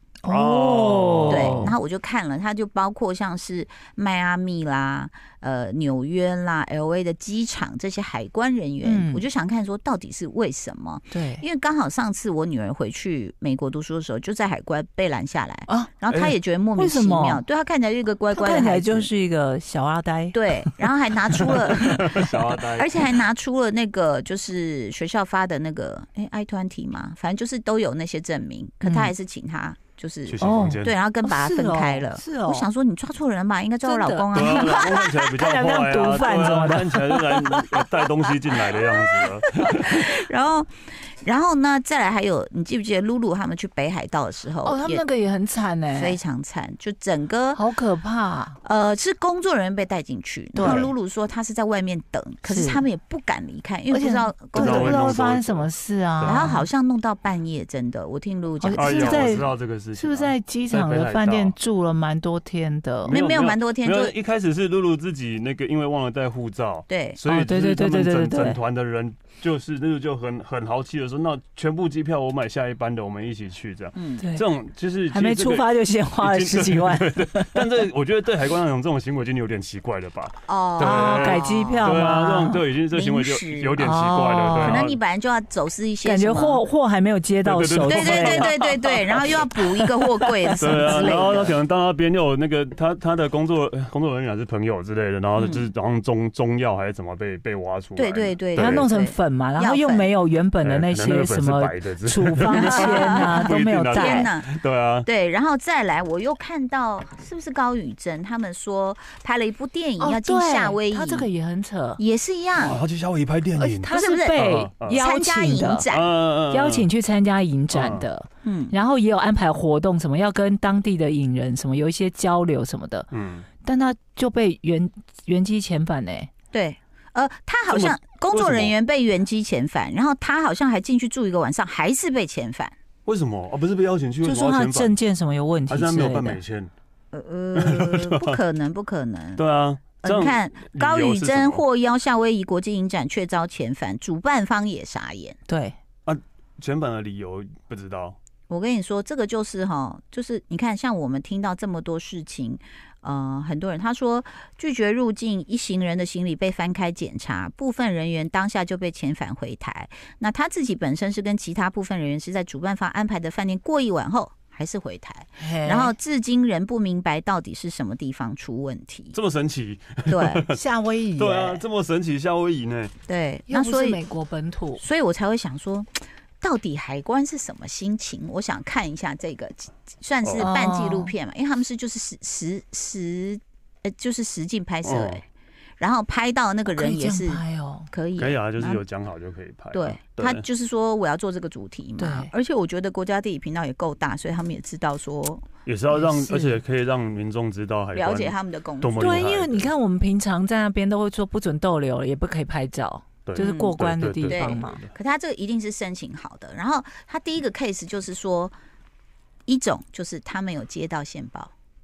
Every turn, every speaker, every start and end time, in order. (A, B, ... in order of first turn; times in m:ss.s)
0:00.2-0:01.7 A
0:00.3-0:01.7 B
0:01.3-0:19.1 C
0:08.8-0:09.2 A
0:11.1-0:11.4 A
0:15.7-0:16.0 A
0:16.8-0:17.4 A
0:18.3-0:20.7 A
0:20.3-0:34.9 C
0:21.3-0:22.2 A
0:21.5-0:23.2 B
0:28.8-0:29.1 A
0:30.2-0:30.9 B
0:30.4-0:32.7 A
0:33.8-0:37.9 A
0:34.3-0:40.0 B
0:39.0-0:45.0 C
0:44.6-0:46.2 A
0:45.9-0:47.6 C
0:47.5-0:48.6 A
0:48.6-0:55.2 C
0:50.5-0:50.9 A
0:50.6-0:50.9 B
0:52.4-0:52.8 A
0:53.9-0:56.7 A
0:54.5-0:56.5 B
0:56.2-0:59.4 C
0:58.6-1:03.2 A
0:58.8-1:01.6 B
1:03.0-1:25.0 B
1:03.1-1:04.1 C
1:06.9-1:07.2 C
1:07.3-1:08.6 A
1:14.0-1:14.2 C
1:15.1-1:17.7 A
1:20.5-1:22.0 C
1:20.8-1:22.6 A
1:22.9-1:23.8 C
1:23.8-1:24.8 A
1:24.6-1:26.6 C
1:26.0-1:28.5 A
1:27.4-1:29.4 B
1:27.9-1:31.6 C
1:29.5-1:31.5 A
1:30.6-1:38.9 B
1:35.4-1:35.7 C
1:38.0-1:40.1 C
1:38.5-1:44.3 A
1:40.6-1:45.1 B
1:42.5-1:44.5 C
1:45.0-1:51.3 C
1:50.0-1:52.0 A
1:52.0-1:52.8 C
1:52.6-1:55.0 B
1:53.5-1:55.9 A
1:53.9-1:56.1 C
1:55.9-1:56.9 B
1:56.5-2:03.1 A
1:57.7-1:58.1 B
1:58.4-1:58.8 C
2:03.1-2:03.5 B
2:03.6-2:06.3 A
2:06.5-2:12.7 C
2:07.7-2:08.7 B
2:13.0-2:15.0 B
2:14.2-2:16.4 A
2:15.7-2:16.7 B
2:17.1-2:19.4 C
2:17.5-2:18.4 B
2:19.4-2:21.6 B
2:20.0-2:25.4 C
2:25.5-2:25.8 A
2:26.0-2:28.2 B
2:28.5-2:49.2 C
2:45.4-2:45.9 A
2:49.1-2:50.6 B
2:50.1-2:50.4 C
2:50.5-2:51.6 A
2:51.2-2:52.9 B
2:53.1-2:54.0 C
2:53.5-2:54.8 A
2:54.8-3:05.2 C
3:00.2-3:00.5 B
3:00.4-3:01.1 A
3:04.8-3:05.2 B
3:05.8-3:08.8 C
3:06.7-3:07.9 A
3:08.2-3:10.4 B
3:09.7-3:15.5 C
3:12.0-3:12.3 A
3:15.6-3:19.7 B
3:15.9-3:16.6 A
3:17.9-3:19.3 C
3:18.9-3:24.8 A
3:23.2-3:24.9 B
3:23.4-3:28.5 C
3:29.5-3:31.5 C